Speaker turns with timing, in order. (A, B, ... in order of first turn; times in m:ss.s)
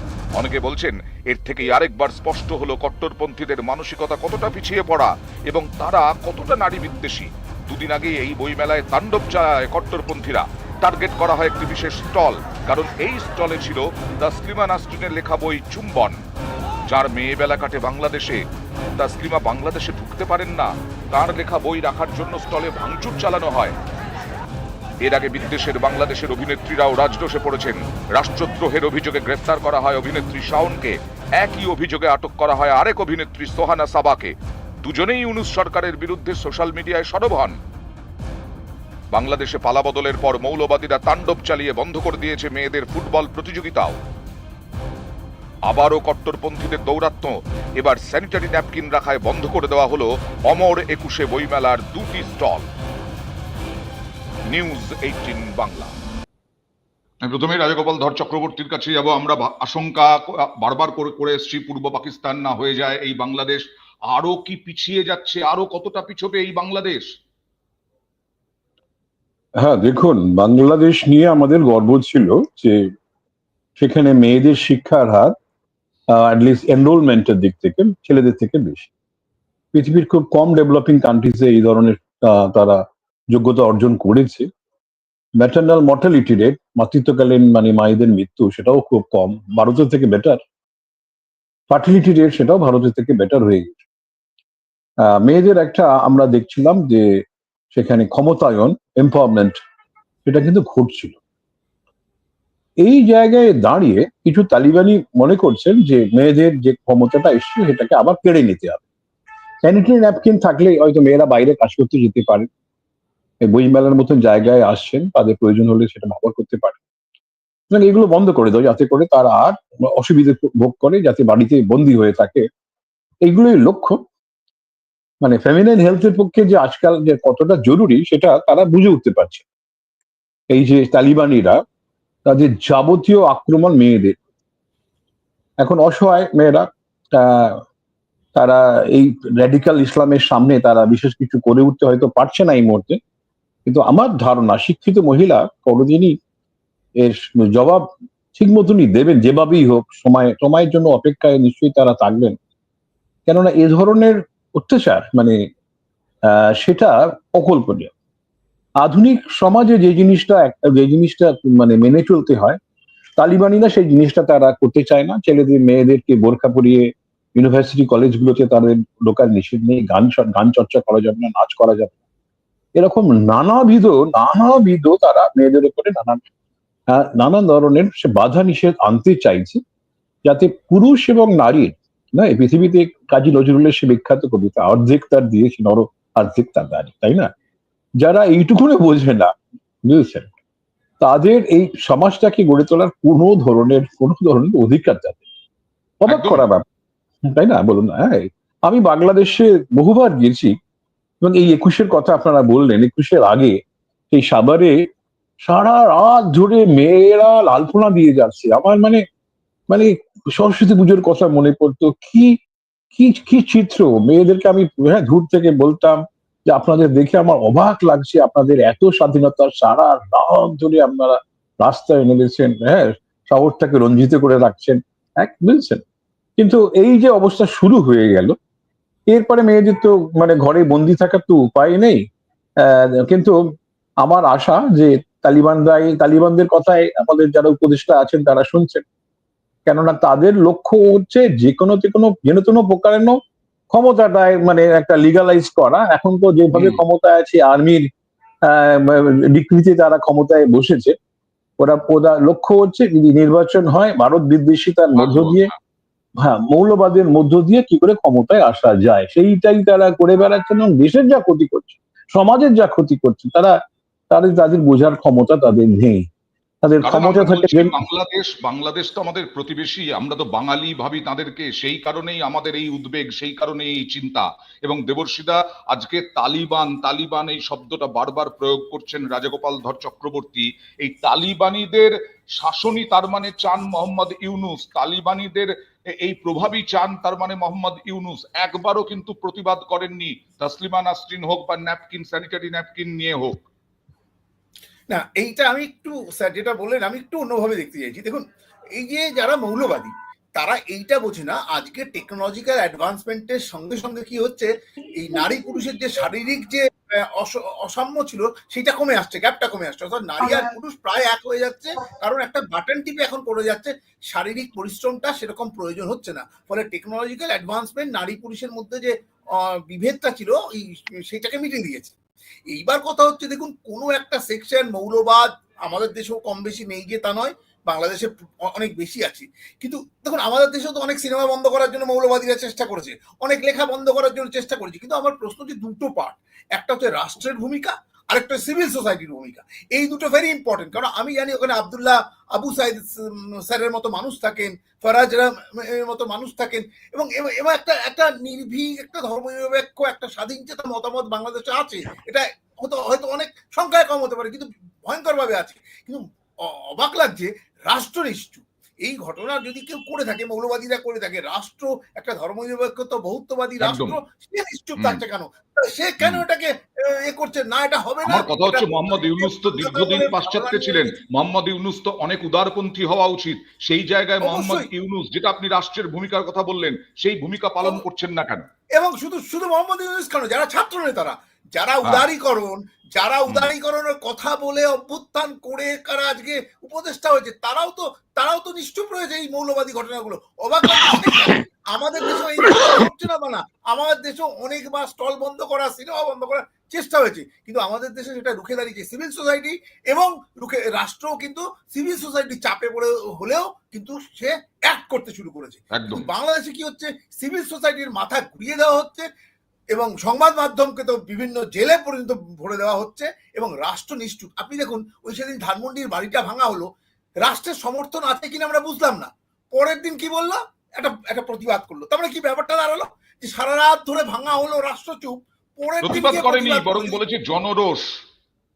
0:00.4-0:16.2 A
0:16.9-0:18.4 A
0:19.0-0:23.8 A
0:25.0-0:37.6 A
0:39.1-0:44.0 A
0:45.7-0:52.6 A
0:54.5-0:56.0 A
0:57.2-1:07.0 A
1:09.6-1:12.8 B
1:13.8-1:15.3 B
1:16.1-1:18.9 B
1:19.7-1:24.5 B
1:25.4-1:30.4 B
1:31.7-1:33.8 B
1:35.1-1:37.2 B
1:37.7-1:39.6 B
1:40.2-1:41.2 B
1:42.8-1:48.8 B
1:49.6-1:52.5 B
1:53.4-1:56.8 B
1:57.7-2:02.4 B
2:03.2-2:04.0 B
2:05.2-2:09.4 B
2:10.5-2:11.6 B
2:12.2-2:14.2 B
2:15.6-2:17.6 B
2:18.3-2:23.0 B
2:23.6-2:26.2 B
2:27.0-2:32.3 B
2:33.3-2:35.4 B
2:36.3-2:37.9 B
2:38.8-2:42.6 B
2:43.2-2:51.9 B
2:52.8-2:56.2 B
2:56.9-2:59.6 B
3:00.2-3:07.3 B
3:08.0-3:09.3 B
3:09.8-3:10.3 B
3:11.0-3:15.2 B
3:16.0-3:16.6 B
3:16.1-3:16.4 A
3:17.3-3:20.5 B
3:21.2-3:23.6 B
3:24.1-3:24.7 B
3:25.4-3:29.0 B
3:29.7-3:32.3 B
3:32.9-3:45.8 B
3:46.4-3:48.3 B
3:49.1-3:52.0 B
3:52.6-3:53.3 B
3:54.0-3:58.8 B
3:59.6-4:03.1 B
4:03.7-4:07.9 B
4:06.5-4:06.8 A
4:08.5-4:10.9 B
4:11.6-4:15.5 B
4:14.9-4:15.5 A
4:16.2-4:23.5 B
4:24.1-4:26.1 B
4:26.6-4:27.8 B
4:26.8-4:53.4 A
4:54.9-4:58.2 C
4:58.8-5:06.6 C
5:07.2-5:18.9 C
5:19.4-5:21.9 C
5:22.5-5:42.8 C
5:43.5-5:56.0 C
5:56.8-6:06.5 C
6:03.6-6:04.0 A
6:07.0-6:10.9 C
6:08.0-6:18.4 A
6:14.2-6:14.7 C
6:18.8-6:49.0 C
6:45.7-6:46.0 A
6:49.7-6:56.6 C
6:57.2-7:07.0 C
7:05.8-7:07.8 A